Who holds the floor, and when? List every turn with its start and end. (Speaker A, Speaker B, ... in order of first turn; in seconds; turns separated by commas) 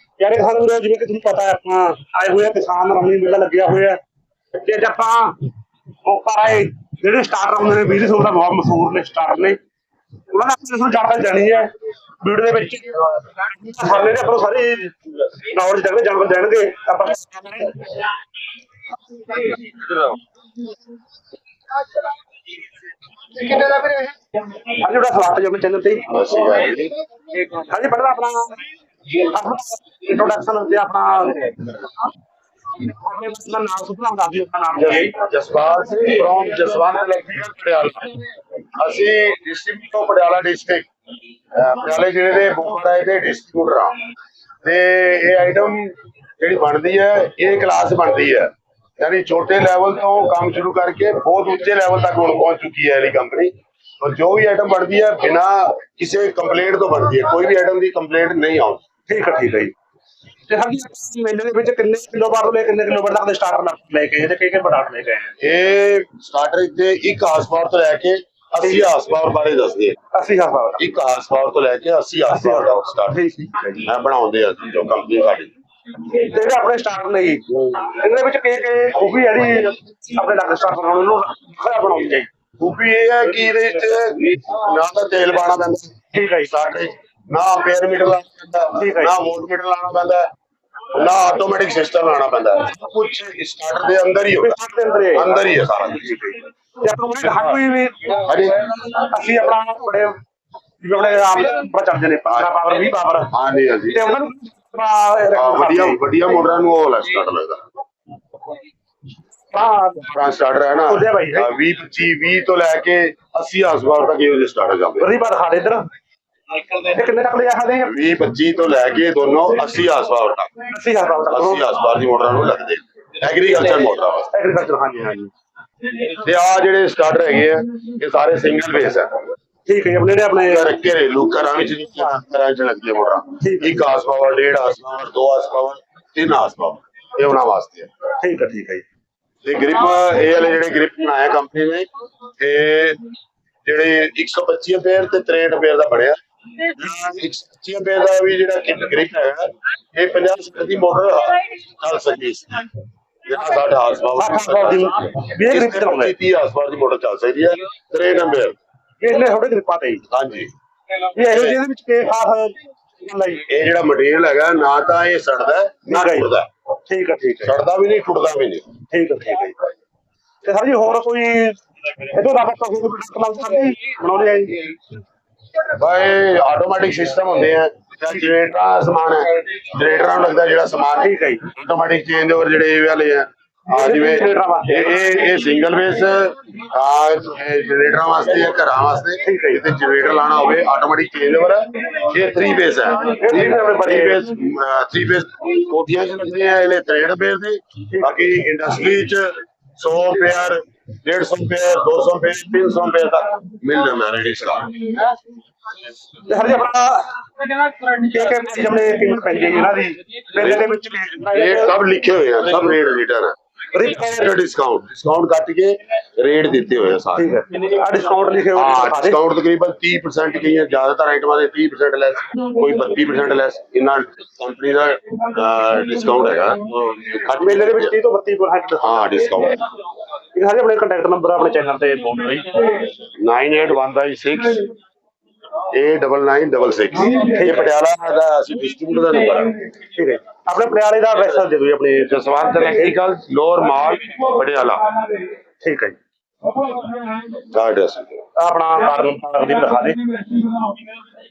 Speaker A: 0.2-4.0, Speaker A: 4.6-5.4, Speaker A: 6.0-9.6, Speaker A: 10.3-11.7, Speaker A: 12.2-18.1, Speaker A: 19.3-19.6, Speaker A: 23.4-26.1, Speaker B: 26.1-26.9, Speaker A: 27.5-31.8, Speaker A: 32.8-35.1, Speaker B: 35.1-38.2, Speaker B: 38.8-40.9, Speaker B: 41.5-44.0, Speaker B: 44.6-48.5, Speaker B: 49.0-58.8, Speaker A: 59.1-59.7, Speaker A: 60.5-65.3, Speaker B: 65.4-70.0, Speaker A: 70.1-70.8, Speaker B: 70.8-73.2, Speaker A: 72.3-73.8, Speaker B: 73.8-75.5, Speaker A: 76.1-82.3, Speaker B: 82.6-90.2, Speaker A: 86.1-86.5, Speaker A: 88.8-89.1, Speaker B: 90.9-94.6, Speaker A: 94.4-95.4, Speaker B: 95.1-96.1, Speaker A: 95.9-100.1, Speaker B: 97.3-97.6, Speaker B: 98.2-98.6, Speaker A: 100.8-103.3, Speaker B: 103.3-104.0, Speaker A: 103.9-106.0, Speaker B: 105.3-107.6, Speaker A: 109.5-110.1, Speaker B: 110.0-115.1, Speaker A: 110.9-111.5, Speaker A: 115.0-115.8, Speaker A: 116.7-117.9, Speaker B: 117.8-120.5, Speaker A: 120.7-121.6, Speaker B: 121.3-124.3, Speaker A: 124.3-125.3, Speaker B: 126.0-129.1, Speaker A: 129.7-130.7, Speaker B: 130.5-137.9, Speaker A: 133.4-133.7, Speaker A: 138.2-138.8, Speaker B: 139.4-141.9, Speaker B: 142.4-143.0, Speaker B: 143.6-152.7, Speaker B: 153.2-158.6, Speaker A: 154.2-156.1, Speaker A: 159.0-160.0, Speaker B: 160.1-160.5, Speaker A: 161.1-163.4, Speaker B: 161.3-161.6, Speaker B: 163.5-166.5, Speaker A: 165.9-166.3, Speaker A: 166.9-167.5, Speaker B: 167.4-168.7, Speaker A: 168.9-169.7, Speaker A: 170.4-174.8, Speaker B: 175.6-204.9, Speaker A: 181.0-181.4, Speaker A: 183.7-184.9, Speaker A: 189.2-189.6, Speaker A: 193.2-194.2, Speaker A: 197.9-198.2, Speaker A: 206.3-211.8, Speaker B: 210.4-210.7, Speaker B: 211.3-213.3, Speaker A: 213.7-214.3, Speaker B: 213.9-217.3, Speaker A: 217.2-219.2, Speaker B: 218.5-227.9, Speaker A: 227.4-229.1, Speaker B: 228.8-229.6, Speaker A: 230.3-232.8, Speaker B: 233.2-234.7, Speaker B: 235.7-239.6, Speaker A: 237.3-237.7, Speaker A: 239.9-242.2, Speaker B: 242.1-245.0, Speaker A: 245.6-246.0, Speaker B: 247.1-248.2, Speaker A: 248.3-250.5